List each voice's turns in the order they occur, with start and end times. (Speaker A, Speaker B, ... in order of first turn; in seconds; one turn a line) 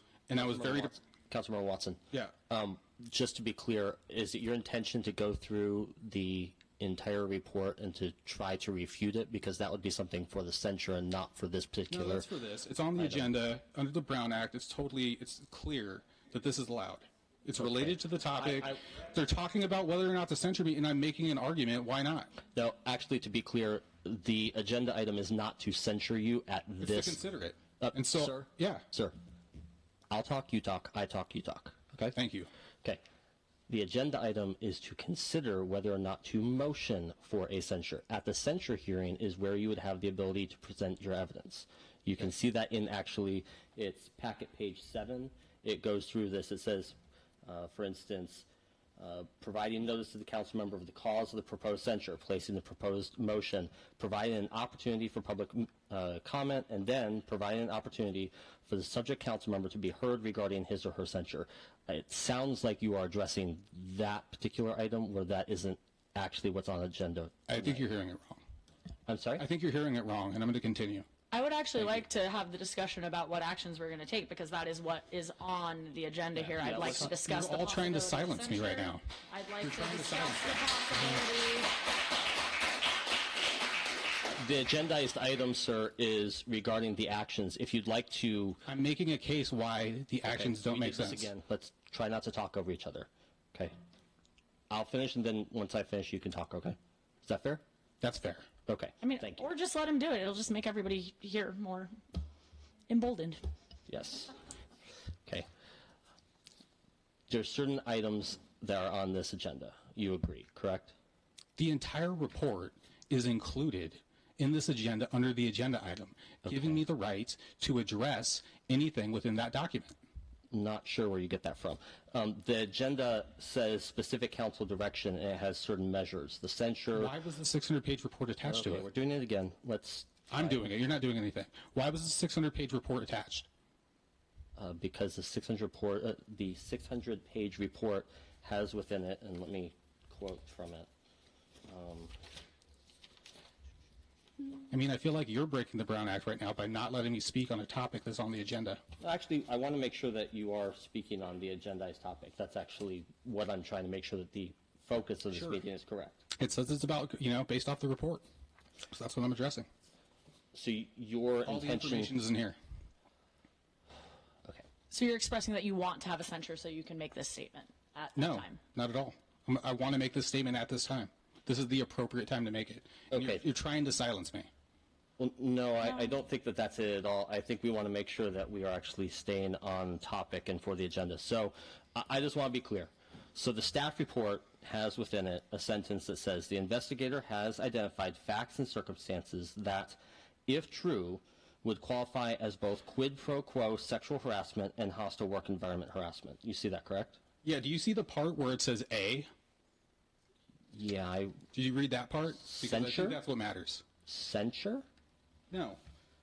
Speaker A: 0.3-0.9
Speaker B: 0.3-12.3
Speaker A: 11.9-22.3
Speaker B: 13.0-13.3
Speaker B: 17.6-18.8
Speaker B: 22.5-27.2
Speaker A: 26.8-28.8
Speaker B: 27.8-29.1
Speaker B: 30.1-32.1
Speaker A: 32.1-32.5
Speaker B: 33.7-67.8
Speaker A: 67.5-68.4
Speaker B: 69.1-69.4
Speaker A: 69.4-71.0
Speaker C: 71.3-81.7
Speaker A: 76.4-79.0
Speaker B: 76.6-77.1
Speaker A: 79.6-81.2
Speaker B: 84.3-88.6
Speaker A: 88.6-91.3
Speaker B: 90.2-93.7
Speaker B: 94.7-97.6
Speaker A: 98.0-98.5
Speaker B: 98.7-99.5
Speaker C: 99.0-101.9
Speaker C: 102.9-103.4
Speaker B: 103.9-104.3
Speaker B: 107.3-110.9
Speaker A: 111.6-120.0
Speaker B: 116.4-116.8
Speaker B: 120.5-127.1
Speaker A: 126.9-128.8
Speaker B: 128.4-130.6
Speaker A: 130.3-133.4
Speaker B: 134.6-140.9
Speaker B: 141.7-142.1
Speaker A: 144.7-148.8
Speaker B: 149.0-156.2
Speaker A: 155.3-155.6
Speaker A: 156.3-158.2
Speaker A: 158.9-159.7
Speaker B: 160.5-162.1
Speaker A: 161.4-162.6
Speaker C: 164.9-168.6
Speaker A: 168.2-174.5
Speaker B: 173.1-173.4
Speaker B: 175.2-197.2
Speaker A: 197.4-199.3
Speaker B: 200.7-201.4
Speaker A: 201.5-203.8
Speaker B: 202.4-203.2
Speaker B: 204.1-204.8
Speaker A: 205.5-205.8